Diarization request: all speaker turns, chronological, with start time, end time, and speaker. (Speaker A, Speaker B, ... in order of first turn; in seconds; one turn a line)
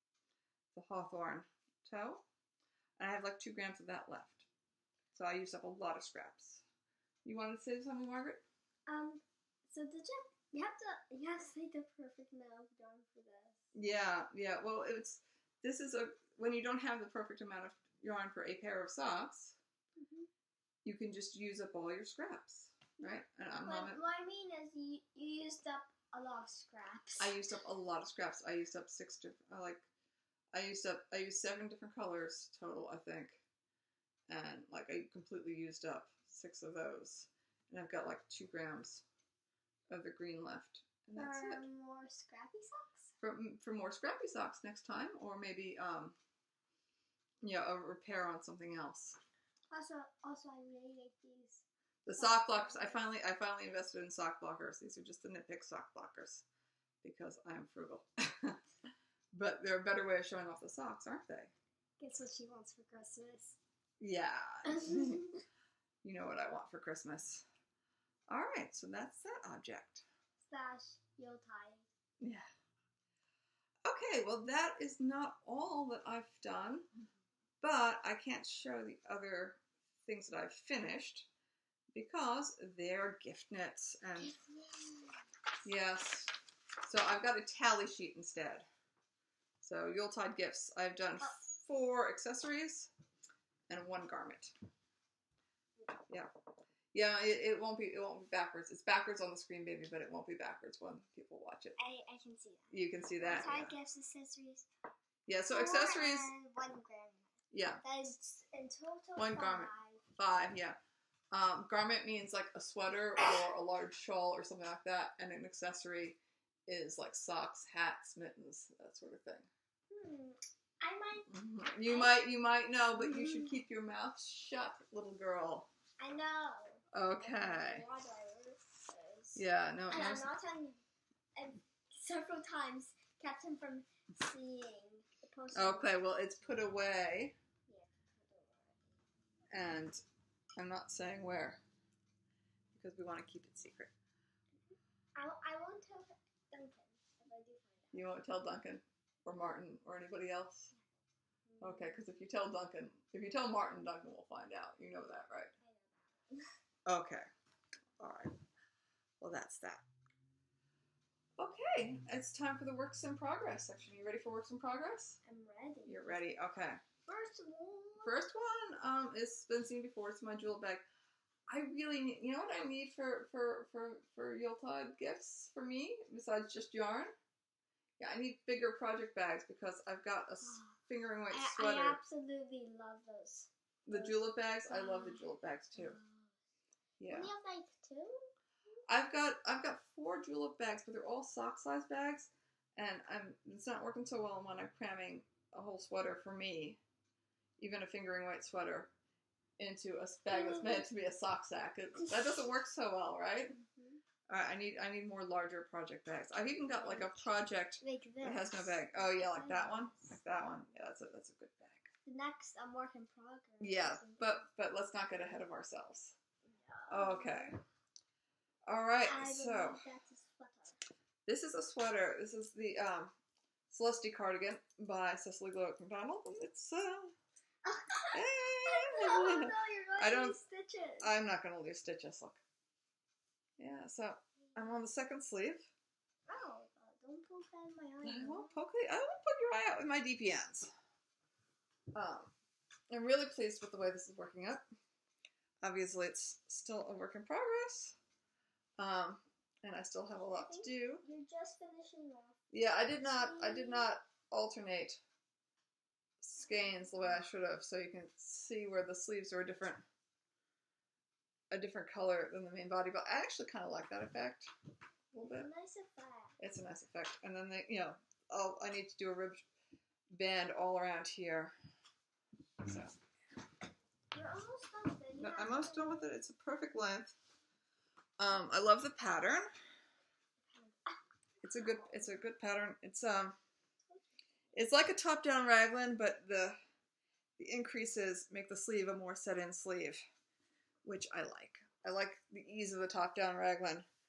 Speaker A: 0.7-2.2
Speaker A: 3.0-4.5
Speaker A: 5.1-6.6
Speaker A: 7.2-8.4
Speaker B: 8.9-13.6
Speaker A: 13.7-19.6
Speaker B: 19.9-20.3
Speaker A: 20.8-24.0
Speaker B: 23.0-27.4
Speaker A: 27.2-29.8
Speaker A: 30.5-33.4
Speaker A: 34.3-39.0
Speaker A: 39.9-41.6
Speaker B: 41.1-43.1
Speaker A: 43.2-46.1
Speaker A: 47.4-49.2
Speaker B: 49.7-53.0
Speaker A: 52.0-56.4
Speaker A: 57.0-58.6
Speaker A: 59.3-61.5
Speaker B: 62.0-63.6
Speaker A: 64.0-65.4
Speaker B: 64.6-65.4
Speaker A: 66.0-67.5
Speaker A: 68.3-70.0
Speaker B: 70.4-71.8
Speaker A: 73.8-76.9
Speaker A: 77.6-81.3
Speaker A: 81.9-84.4
Speaker B: 84.2-85.2
Speaker A: 85.6-88.7
Speaker A: 89.6-92.9
Speaker A: 93.7-94.5
Speaker A: 96.9-101.8
Speaker B: 101.8-104.7
Speaker A: 102.7-103.7
Speaker A: 105.3-106.3
Speaker B: 105.5-107.3
Speaker A: 107.5-107.8
Speaker B: 107.8-110.0
Speaker A: 109.2-110.8
Speaker A: 111.3-119.5
Speaker B: 119.9-122.2
Speaker A: 121.3-125.7
Speaker B: 123.0-123.5
Speaker B: 126.0-130.8
Speaker A: 126.9-127.8
Speaker A: 129.3-130.3
Speaker B: 131.3-135.9
Speaker A: 135.5-137.3
Speaker B: 137.7-138.9
Speaker A: 139.5-140.0
Speaker A: 140.6-141.6
Speaker A: 142.7-143.9
Speaker B: 145.1-148.1
Speaker A: 147.9-150.7
Speaker B: 151.5-152.0
Speaker A: 151.6-155.5
Speaker B: 155.6-156.5
Speaker A: 156.8-157.3
Speaker A: 158.0-158.3
Speaker A: 159.2-159.8
Speaker A: 161.4-165.2
Speaker B: 165.2-166.2
Speaker A: 165.9-166.8
Speaker B: 167.1-168.1
Speaker A: 168.0-170.8
Speaker A: 171.5-177.1
Speaker A: 178.0-182.0
Speaker B: 180.4-180.7
Speaker B: 181.3-184.2
Speaker A: 183.8-186.0
Speaker B: 184.7-185.2
Speaker B: 185.7-186.3
Speaker A: 187.0-187.3
Speaker B: 187.1-188.2
Speaker A: 188.9-196.8
Speaker A: 197.6-198.9
Speaker A: 199.6-203.6
Speaker B: 200.3-200.8
Speaker B: 202.0-202.4
Speaker B: 203.5-204.0
Speaker A: 204.3-211.9
Speaker B: 206.7-207.2
Speaker B: 207.8-210.1
Speaker B: 212.1-214.4
Speaker A: 213.6-216.2
Speaker B: 216.4-217.5
Speaker A: 216.9-217.6
Speaker A: 218.7-219.8
Speaker B: 219.1-220.8
Speaker A: 221.2-223.1
Speaker A: 223.7-227.1
Speaker B: 227.6-231.1
Speaker A: 228.1-230.4
Speaker A: 231.0-232.4
Speaker A: 233.6-235.7
Speaker B: 236.3-238.5
Speaker A: 238.0-240.7
Speaker A: 241.9-242.3
Speaker A: 242.9-244.6
Speaker A: 245.6-248.0
Speaker A: 248.8-251.0
Speaker B: 250.3-252.4
Speaker A: 252.5-255.0
Speaker B: 253.0-253.9
Speaker A: 256.2-259.8
Speaker A: 261.5-264.5
Speaker A: 265.1-265.5
Speaker B: 265.3-266.3
Speaker A: 266.4-269.5
Speaker A: 270.1-271.5
Speaker A: 272.6-273.0
Speaker B: 274.1-276.2
Speaker A: 275.2-277.1
Speaker A: 278.2-279.5
Speaker B: 280.4-281.0
Speaker A: 281.4-283.4
Speaker A: 284.5-286.6
Speaker A: 287.4-290.0
Speaker A: 290.8-293.9